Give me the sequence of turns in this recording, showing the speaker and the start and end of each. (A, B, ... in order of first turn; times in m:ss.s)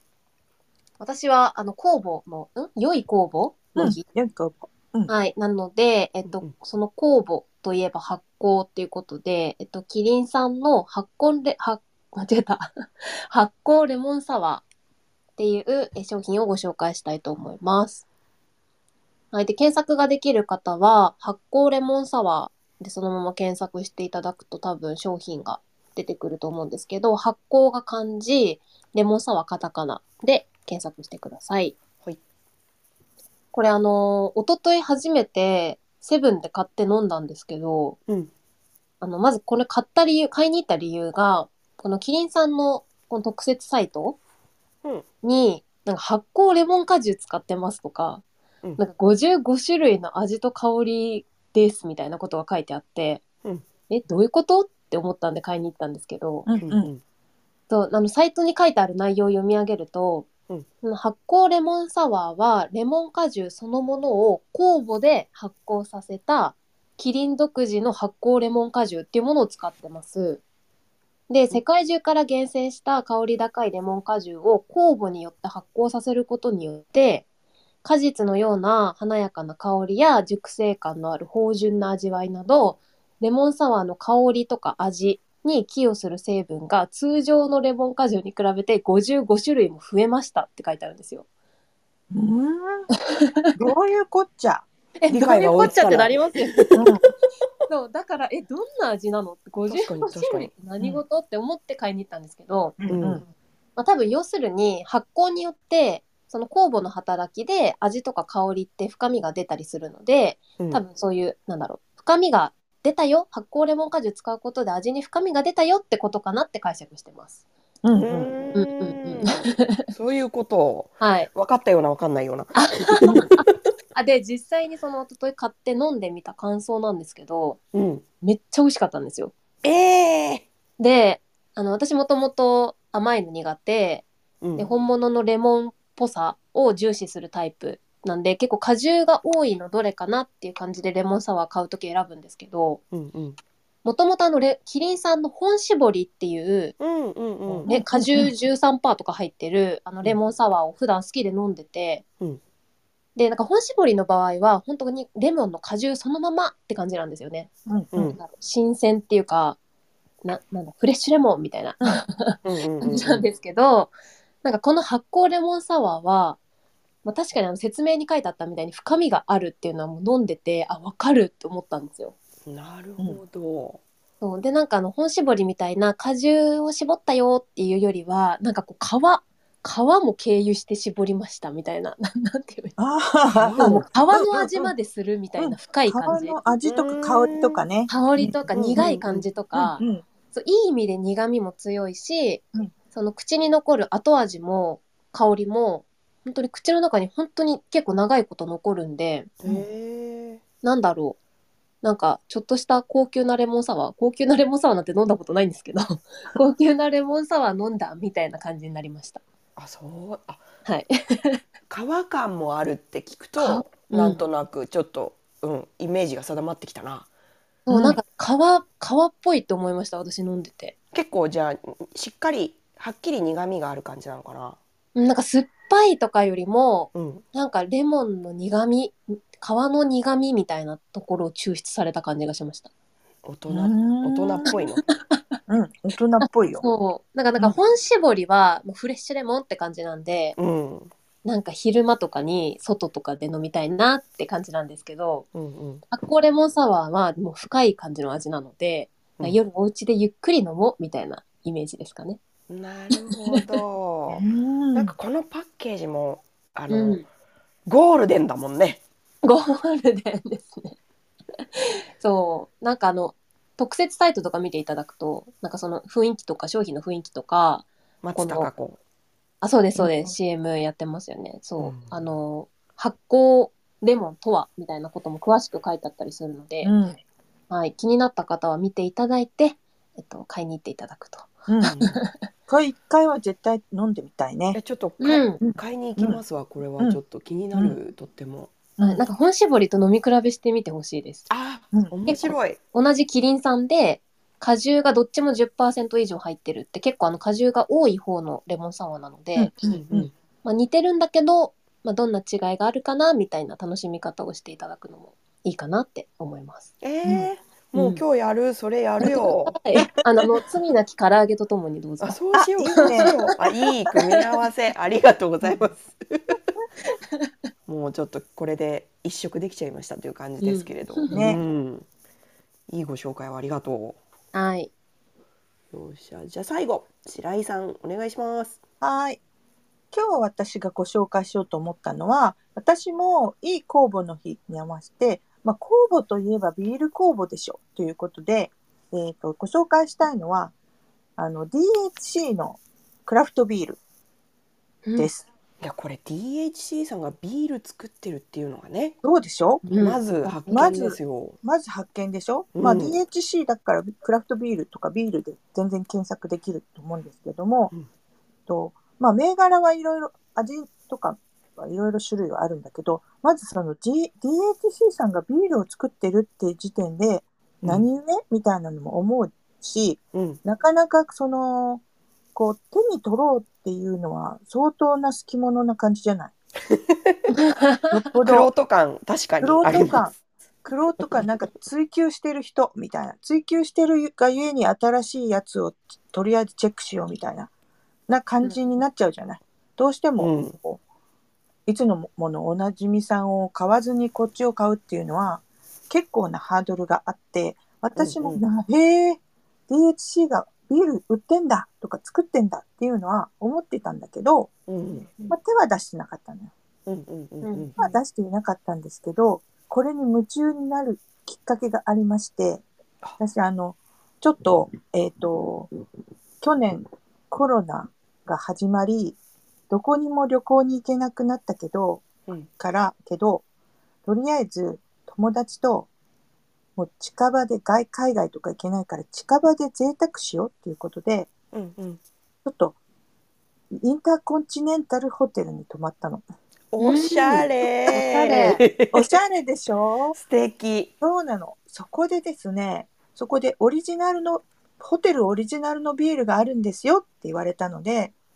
0:01.0-0:04.0 A
0:03.8-0:05.1 B
0:05.1-0:14.6 A
0:15.4-0:18.0 A
0:19.3-0:31.7 A
0:33.5-0:38.0 A
0:39.0-0:44.2 A
0:45.2-0:48.2 A
0:48.8-0:53.2 A
0:53.9-0:56.5 A
0:56.4-0:56.9 B
0:56.6-0:57.0 C
0:57.7-1:00.3 A
1:00.8-1:10.4 A
1:11.3-1:17.2 A
1:17.8-1:31.2 A
1:32.1-1:32.9 B
1:33.0-1:33.5 A
1:33.6-1:34.6 B
1:35.0-1:36.7 A
1:35.1-1:36.8 C
1:36.7-1:37.0 B
1:37.7-1:42.8 A
1:39.7-1:40.5 C
1:42.8-1:43.2 B
1:42.9-1:43.2 C
1:43.8-1:57.4 A
1:57.8-1:58.4 B
1:58.0-2:03.4 C
1:58.5-1:59.8 A
2:01.0-2:01.3 A
2:02.6-2:07.6 A
2:07.7-2:08.0 C
2:08.2-2:09.3 A
2:09.6-2:10.4 C
2:10.8-2:22.8 A
2:14.4-2:14.7 C
2:22.9-2:23.4 C
2:23.8-2:26.8 A
2:26.8-2:27.7 C
2:27.5-2:28.3 B
2:27.7-2:32.0 A
2:33.2-2:39.6 A
2:37.7-2:37.9 B
2:37.9-2:38.2 C
2:40.2-2:43.9 A
2:42.4-2:43.2 C
2:44.4-2:46.4 A
2:47.0-2:52.1 A
2:52.4-2:53.8 C
2:54.2-3:02.8 A
3:02.8-3:04.7 B
3:03.3-3:03.9 C
3:03.6-3:06.4 A
3:05.4-3:09.0 B
3:06.6-3:07.6 C
3:07.9-3:19.3 A
3:08.6-3:09.2 C
3:09.5-3:10.0 B
3:19.4-3:20.4 C
3:20.6-3:21.2 A
3:21.8-3:29.2 A
3:29.6-3:30.4 C
3:30.6-3:31.4 A
3:31.7-3:37.1 C
3:33.4-3:34.2 A
3:37.7-3:40.7 A
3:37.7-3:38.0 B
3:40.9-3:44.6 C
3:44.9-3:52.7 A
3:46.9-3:47.2 C
3:53.2-3:54.8 C
3:53.5-3:54.5 B
3:54.5-3:55.4 A
3:55.5-3:56.6 B
3:56.2-4:00.4 A
4:00.4-4:00.9 C
4:01.2-4:05.2 A
4:05.3-4:05.8 C
4:05.9-4:12.2 A
4:12.5-4:17.0 C
4:12.9-4:13.4 A
4:14.1-4:14.9 B
4:16.7-4:17.0 A
4:17.6-4:18.8 C
4:19.2-4:20.8 A
4:21.5-4:28.5 A
4:28.0-4:28.8 C
4:29.4-4:36.7 A
4:29.8-4:30.1 B
4:31.6-4:31.9 C
4:36.6-4:37.0 B
4:37.5-4:42.2 A
4:41.5-4:41.8 B
4:41.6-4:41.9 C
4:42.5-4:44.6 B
4:44.5-4:48.6 C
4:45.0-4:45.4 A
4:45.4-4:46.2 B
4:48.8-4:49.0 B
4:48.8-4:51.3 A
4:51.3-4:52.6 C
4:52.1-4:59.5 A
4:59.4-5:00.1 B
4:59.7-5:00.1 C
5:00.4-5:06.7 A
5:06.8-5:09.6 C
5:07.7-5:08.0 A
5:09.0-5:13.1 A
5:12.0-5:16.4 C
5:12.3-5:13.2 B
5:17.7-5:21.8 C
5:20.4-5:21.2 A
5:21.1-5:21.4 B
5:22.7-5:24.0 C
5:24.3-5:24.7 A
5:25.7-5:28.6 C
5:28.8-5:29.2 B
5:29.9-5:40.5 B
5:41.2-5:43.8 B
5:44.8-5:45.1 A
5:45.0-5:45.3 B
5:45.6-5:49.0 C
5:49.0-5:49.6 B
5:49.6-5:50.8 A
5:49.8-5:51.4 C
5:50.5-5:57.7 B
5:52.6-5:53.0 C
5:58.5-6:11.8 B
6:10.1-6:10.4 C
6:12.3-6:16.3 B
6:16.7-6:17.2 C
6:17.4-6:17.8 A
6:17.9-6:18.5 B
6:18.2-6:20.0 C
6:19.4-6:27.5 B
6:28.1-6:30.8 B
6:30.2-6:30.6 C
6:31.6-6:44.5 B
6:38.0-6:38.4 C
6:44.7-6:45.1 C
6:45.3-6:46.5 B
6:46.8-6:47.8 C
6:47.4-6:48.0 A
6:47.8-6:52.6 B
6:53.2-6:55.7 B
6:56.4-6:59.2 B
6:59.7-7:03.4 B
7:04.0-7:05.9 B
7:06.8-7:11.3 B
7:11.5-7:12.0 C
7:12.4-7:12.8 B
7:13.7-7:16.2 B
7:16.7-7:19.1 C
7:16.8-7:18.6 A
7:17.9-7:20.2 B
7:20.1-7:20.9 C
7:21.0-7:28.1 B